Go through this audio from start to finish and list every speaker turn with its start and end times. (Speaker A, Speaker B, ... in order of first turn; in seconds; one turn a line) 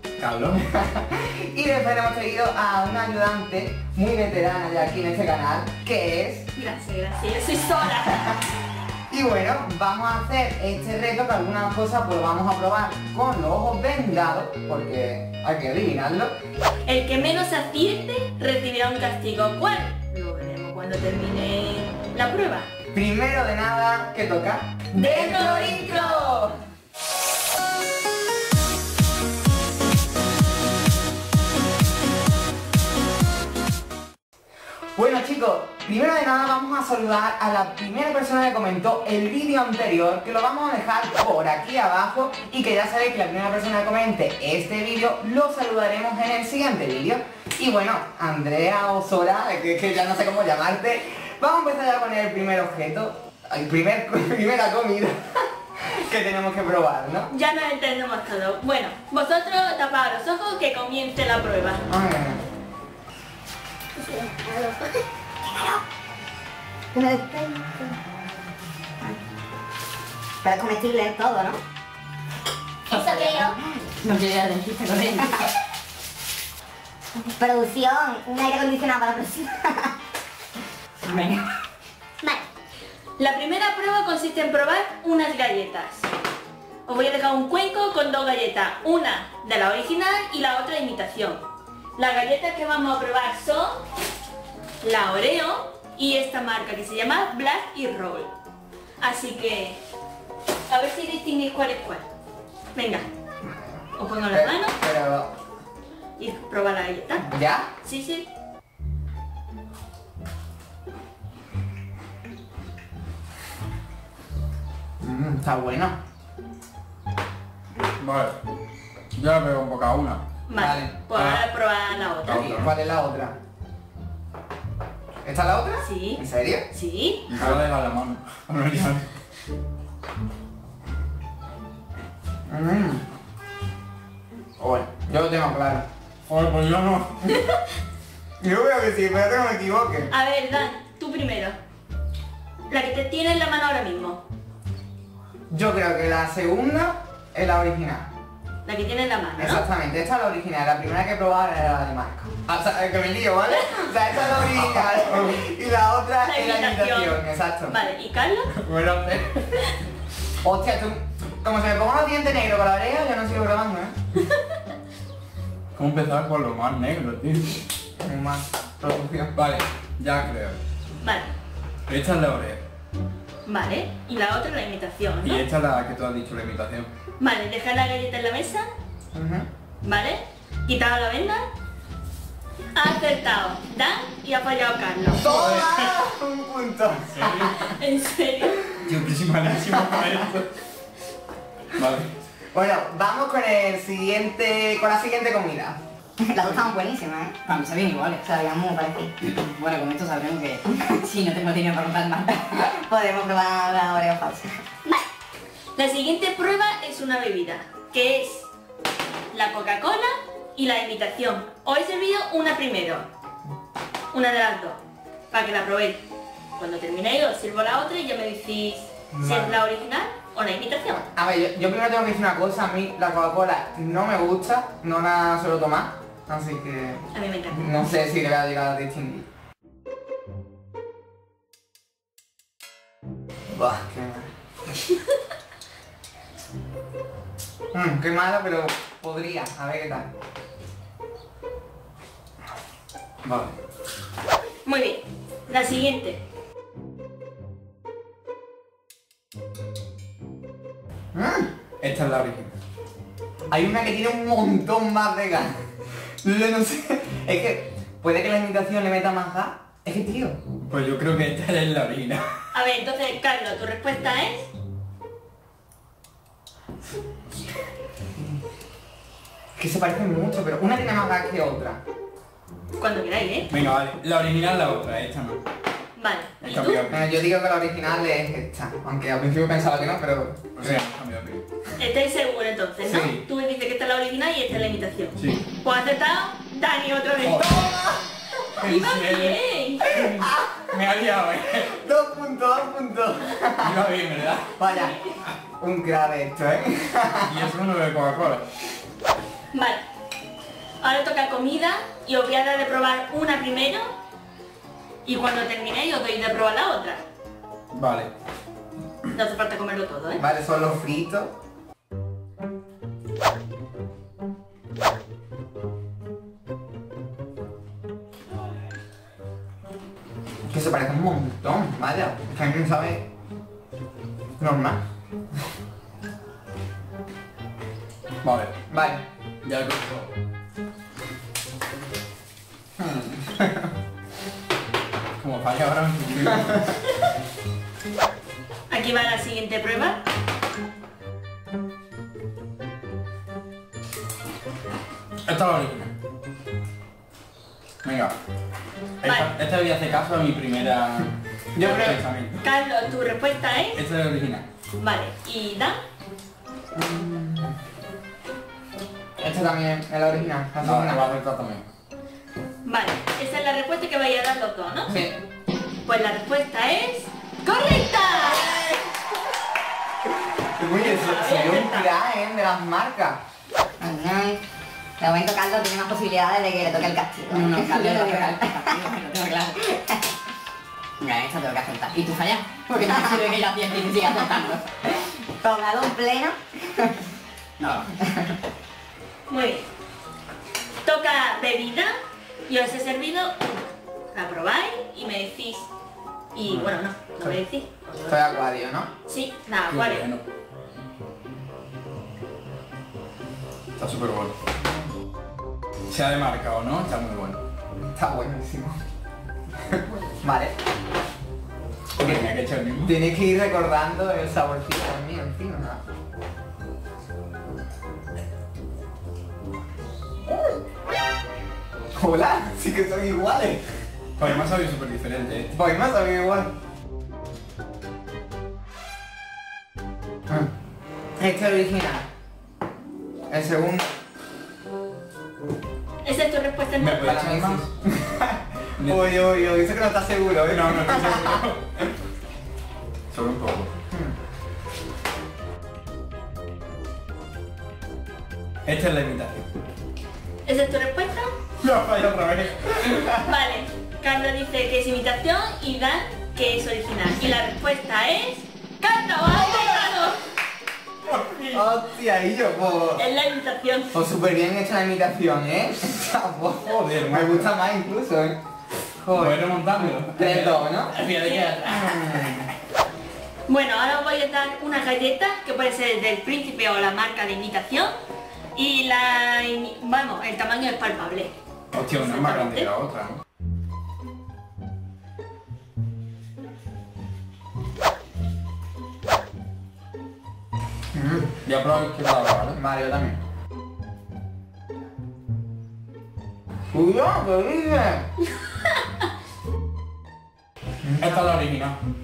Speaker A: 0.2-0.7
Speaker B: 0.7-6.5
Speaker C: 6.6-8.3
Speaker B: 9.1-16.4
Speaker C: 16.9-22.7
Speaker B: 22.9-26.6
Speaker C: 24.9-26.4
Speaker B: 35.0-57.3
Speaker C: 57.3-61.8
Speaker B: 61.9-62.4
Speaker D: 64.0-65.8
Speaker D: 66.9-68.0
Speaker D: 70.4-71.6
Speaker D: 72.9-74.0
Speaker E: 74.0-75.2
Speaker D: 75.1-75.5
Speaker D: 77.2-79.9
Speaker D: 81.0-81.4
Speaker C: 83.2-86.1
Speaker C: 86.9-91.4
Speaker C: 92.0-93.8
Speaker C: 94.8-98.3
Speaker C: 99.0-99.8
Speaker C: 100.7-102.0
Speaker C: 102.8-103.0
Speaker B: 103.4-105.3
Speaker C: 104.0-104.8
Speaker C: 106.2-107.3
Speaker B: 107.3-107.7
Speaker C: 107.8-108.3
Speaker B: 115.0-116.0
Speaker A: 118.0-118.4
Speaker A: 119.2-120.2
Speaker C: 120.5-122.4
Speaker B: 120.6-120.9
Speaker A: 121.1-121.5
Speaker A: 122.2-122.7
Speaker B: 122.3-123.4
Speaker B: 125.2-126.7
Speaker C: 125.8-127.3
Speaker A: 127.3-129.1
Speaker B: 132.5-133.0
Speaker B: 134.6-135.9
Speaker A: 136.3-137.3
Speaker B: 138.4-140.1
Speaker C: 140.1-141.6
Speaker C: 142.7-144.2
Speaker B: 145.5-148.1
Speaker C: 148.7-149.6
Speaker B: 149.4-157.8
Speaker C: 153.5-153.8
Speaker C: 156.2-158.5
Speaker B: 158.7-159.4
Speaker B: 160.4-164.0
Speaker A: 165.8-167.6
Speaker B: 168.0-169.3
Speaker A: 169.3-170.6
Speaker C: 171.0-171.3
Speaker A: 171.9-172.6
Speaker C: 173.5-175.4
Speaker A: 175.2-176.9
Speaker C: 177.2-178.7
Speaker B: 179.1-179.5
Speaker C: 179.8-181.5
Speaker C: 182.8-185.3
Speaker B: 185.1-187.6
Speaker A: 185.2-186.0
Speaker A: 187.1-187.7
Speaker C: 187.5-188.6
Speaker A: 188.8-190.5
Speaker B: 189.8-190.1
Speaker A: 191.7-192.1
Speaker B: 192.5-195.8
Speaker D: 196.2-197.5
Speaker E: 197.5-198.3
Speaker D: 198.2-199.2
Speaker E: 199.2-202.4
Speaker D: 200.7-201.2
Speaker D: 202.4-205.0
Speaker C: 205.8-208.5
Speaker C: 209.3-213.1
Speaker C: 214.1-216.0
Speaker C: 216.6-221.1
Speaker B: 219.1-219.6
Speaker B: 221.1-229.3
Speaker C: 227.1-227.7
Speaker B: 233.5-234.3
Speaker B: 237.7-240.1
Speaker A: 243.2-243.6
Speaker C: 244.7-246.2
Speaker B: 251.1-251.5
Speaker A: 251.8-252.5
Speaker B: 253.5-255.5
Speaker B: 256.2-260.4
Speaker A: 260.6-262.3
Speaker C: 262.5-264.5
Speaker B: 269.6-271.8
Speaker C: 272.8-273.5
Speaker A: 273.5-275.4
Speaker C: 276.0-276.8
Speaker A: 276.4-277.1
Speaker B: 276.9-280.8
Speaker A: 280.6-281.4
Speaker C: 281.8-287.5
Speaker B: 282.8-283.2
Speaker A: 285.2-285.5
Speaker A: 287.2-287.6
Speaker B: 287.3-288.1
Speaker C: 288.4-289.9
Speaker A: 288.6-291.7
Speaker B: 289.9-290.6
Speaker B: 291.6-293.8
Speaker A: 293.6-294.6
Speaker B: 294.6-295.0
Speaker C: 294.7-295.0
Speaker B: 295.6-297.4
Speaker A: 297.3-298.5
Speaker C: 299.5-299.8
Speaker C: 300.8-303.9
Speaker C: 305.1-307.0
Speaker A: 307.7-308.1
Speaker C: 309.1-310.2
Speaker B: 310.2-311.3
Speaker B: 320.5-323.0
Speaker B: 324.4-324.8
Speaker A: 328.2-328.5
Speaker B: 328.7-329.0
Speaker A: 329.4-330.1
Speaker B: 332.8-333.7
Speaker A: 335.2-336.8
Speaker C: 338.7-340.0
Speaker A: 345.2-345.9
Speaker A: 347.8-348.1
Speaker A: 349.0-352.4
Speaker C: 349.0-349.3
Speaker B: 351.6-352.0
Speaker C: 352.4-353.8
Speaker A: 353.7-354.5
Speaker C: 354.8-355.8
Speaker B: 356.8-357.6
Speaker B: 359.2-361.1
Speaker A: 360.6-361.7
Speaker C: 362.6-364.9
Speaker B: 364.9-365.2
Speaker C: 365.9-368.6
Speaker B: 368.2-369.1
Speaker B: 370.0-373.2
Speaker C: 370.7-371.9
Speaker D: 373.8-374.4
Speaker D: 375.0-378.9
Speaker E: 377.3-379.6
Speaker D: 379.6-380.0
Speaker E: 381.1-384.5
Speaker D: 382.7-383.3
Speaker D: 384.0-384.6
Speaker D: 385.4-387.0
Speaker D: 387.6-388.4
Speaker C: 389.3-389.6
Speaker C: 390.8-391.9
Speaker C: 392.5-395.7
Speaker C: 396.3-398.2
Speaker B: 398.1-398.9
Speaker C: 399.1-400.1
Speaker A: 399.7-400.2
Speaker A: 403.8-404.4
Speaker A: 405.9-407.4
Speaker B: 407.9-408.8
Speaker B: 409.7-410.5
Speaker A: 412.0-412.9
Speaker B: 412.0-412.3
Speaker B: 412.8-415.8
Speaker B: 420.3-420.6
Speaker B: 421.9-423.6
Speaker A: 424.2-425.5
Speaker B: 425.5-426.5
Speaker B: 431.2-432.1
Speaker B: 433.3-433.9
Speaker C: 436.0-437.2
Speaker A: 436.8-437.7
Speaker B: 437.0-441.5
Speaker A: 438.8-439.5
Speaker A: 440.5-441.9
Speaker A: 443.1-443.7
Speaker A: 448.6-449.4
Speaker C: 450.4-451.3
Speaker A: 451.6-453.2
Speaker C: 453.2-460.3
Speaker A: 461.1-461.7
Speaker B: 461.5-463.0
Speaker C: 463.0-463.9
Speaker B: 463.9-468.4
Speaker A: 466.6-467.5
Speaker B: 469.0-471.0
Speaker A: 469.1-472.3
Speaker C: 471.0-471.9
Speaker B: 471.6-472.5
Speaker C: 473.5-477.9
Speaker C: 478.6-482.7
Speaker A: 481.7-483.2
Speaker B: 490.9-491.3
Speaker A: 491.4-492.6
Speaker B: 492.5-493.2
Speaker B: 496.7-498.1
Speaker B: 500.8-501.3
Speaker A: 501.0-501.8